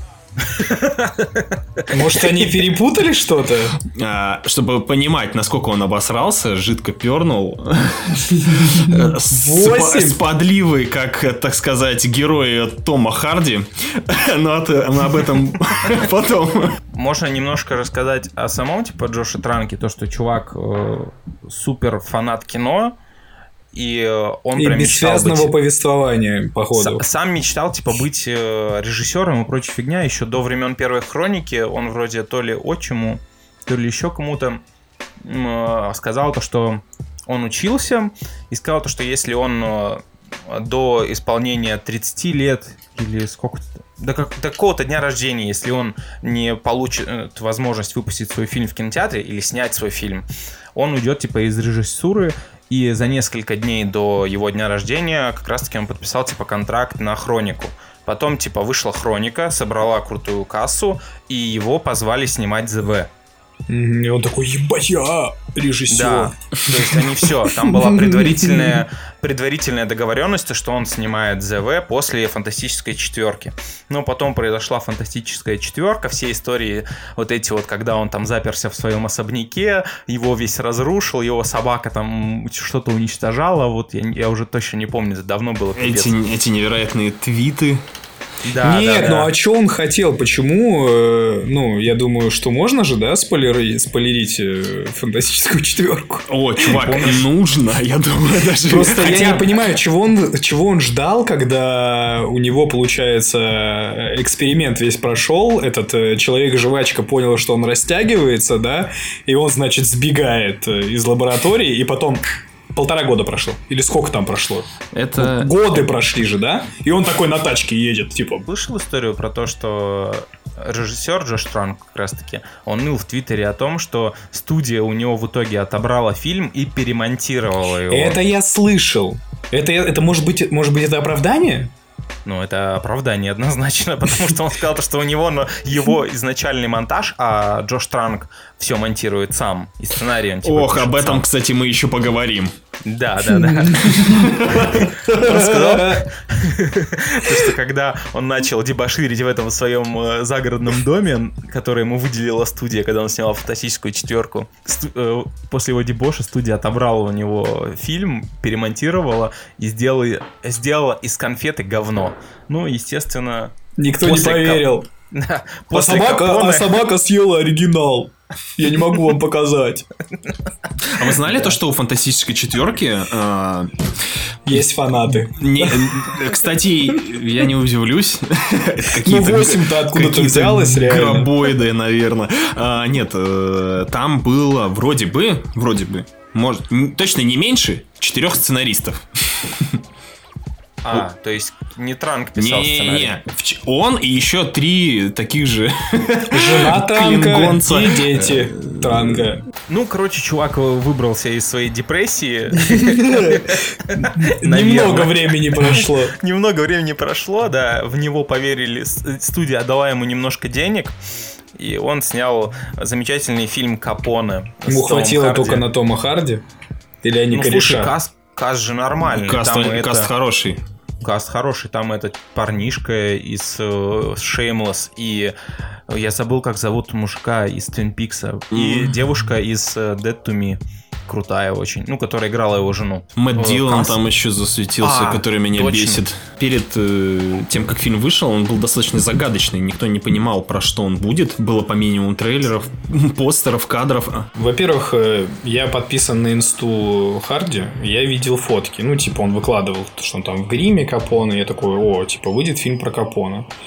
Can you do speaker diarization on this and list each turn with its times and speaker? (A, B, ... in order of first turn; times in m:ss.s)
0:00.4-0:01.8 A
0:01.9-0:03.8 B
0:03.8-0:16.8 C
0:08.4-0:10.2 B
0:16.9-0:23.0 A
0:23.7-0:25.5 A
0:24.5-0:27.0 B
0:26.7-0:34.6 A
0:35.2-1:03.1 A
1:03.7-1:06.4 B
1:05.9-1:26.1 A
1:07.4-1:08.8 B
1:25.8-1:27.8 C
1:28.4-1:29.3 A
1:28.6-1:36.7 B
1:36.3-1:39.5 C
1:36.6-1:37.2 A
1:38.6-1:58.4 B
1:54.9-1:55.5 C
1:58.5-2:08.2 A
2:07.9-2:11.7 B
2:12.2-2:21.2 A
2:20.4-2:22.5 C
2:22.8-2:46.8 A
2:23.5-2:24.1 B
2:24.0-2:24.3 C
2:25.1-2:26.1 B
2:43.8-2:44.9 B
2:45.7-2:49.9 B
2:50.8-2:54.6 C
2:51.2-2:51.6 B
2:54.4-2:56.1 B
2:55.1-3:09.8 C
2:58.9-3:01.3 B
3:10.8-3:13.2 A
3:12.4-3:19.3 C
3:16.3-3:19.4 B
3:19.7-3:30.9 A
3:22.8-3:26.1 B
3:31.5-3:35.6 A
3:34.6-3:36.4 B
3:37.0-3:37.9 B
3:37.3-3:40.1 A
3:39.1-3:40.6 C
3:41.0-3:45.3 A
3:45.9-3:54.0 A
3:48.5-3:48.9 C
3:53.2-4:04.3 C
3:54.8-3:56.0 A
4:04.3-4:13.5 B